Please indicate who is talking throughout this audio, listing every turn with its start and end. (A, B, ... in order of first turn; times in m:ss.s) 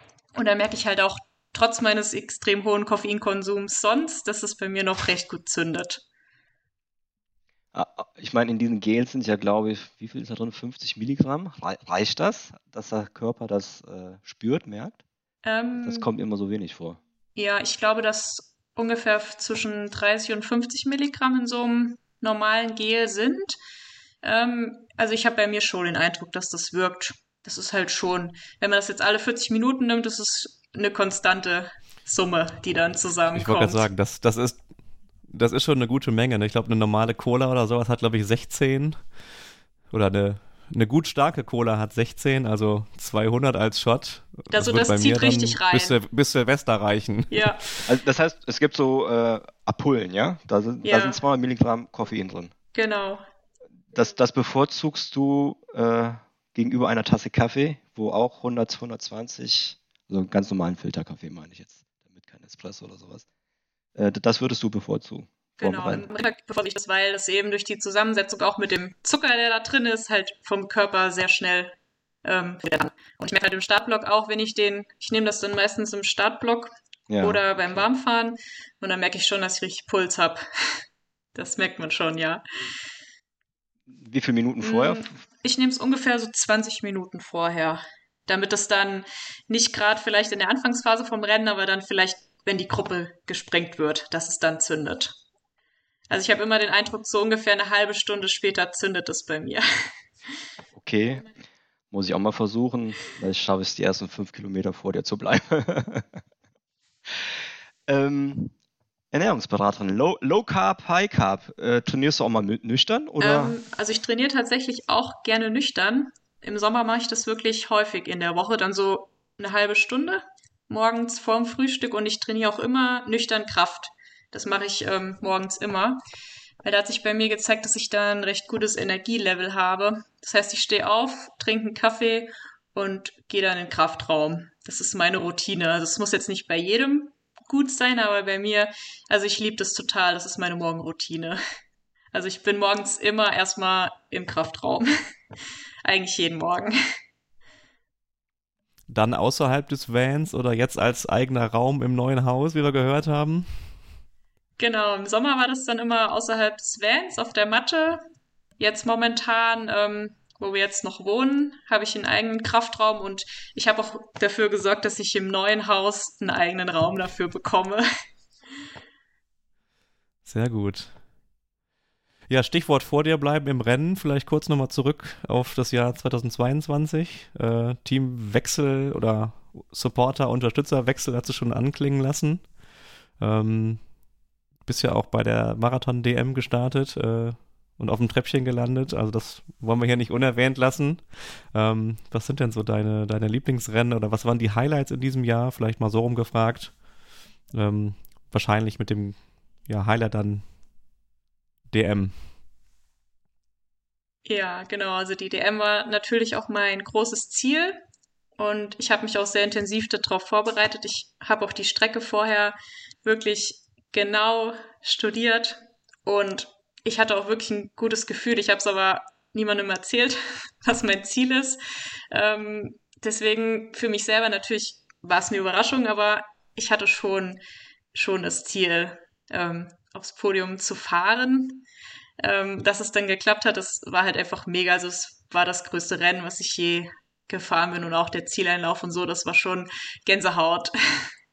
0:00.4-0:06.0 A
0:07.7-0:15.0 B
0:15.4-0:16.1 A
0:15.8-0:17.0 B
0:17.4-0:23.6 A
0:24.2-0:33.8 A
0:33.3-0:34.6 C
0:35.2-0:39.0 C
0:39.9-0:47.8 C
0:44.5-0:46.0 A
0:47.3-0:47.6 A
0:47.8-0:52.5 B
0:50.8-0:51.2 A
0:52.7-0:53.2 A
0:53.9-1:03.2 B
1:04.0-1:06.1 B
1:05.6-1:20.8 A
1:17.1-1:17.8 B
1:21.3-1:22.4 A
1:23.9-1:25.1 B
1:24.6-1:35.2 A
1:36.1-1:39.7 A
1:40.7-1:41.3 B
1:41.9-1:46.2 B
1:47.9-1:48.5 B
1:49.1-1:53.6 B
1:53.2-2:06.0 A
2:06.6-2:21.4 A
2:22.1-2:24.9 A
2:25.8-2:26.7 A
2:28.9-2:33.6 C
2:34.6-2:38.0 A
2:38.6-2:47.8 A
2:50.2-2:50.9 C
2:52.3-3:02.5 C
3:03.2-3:03.8 C
3:04.6-3:16.7 C
3:17.5-3:20.4 C
3:21.7-3:22.2 C
3:24.2-3:27.8 A
3:28.4-3:41.6 A
3:42.1-3:47.4 A
3:47.9-3:51.6 A
3:52.2-4:01.1 A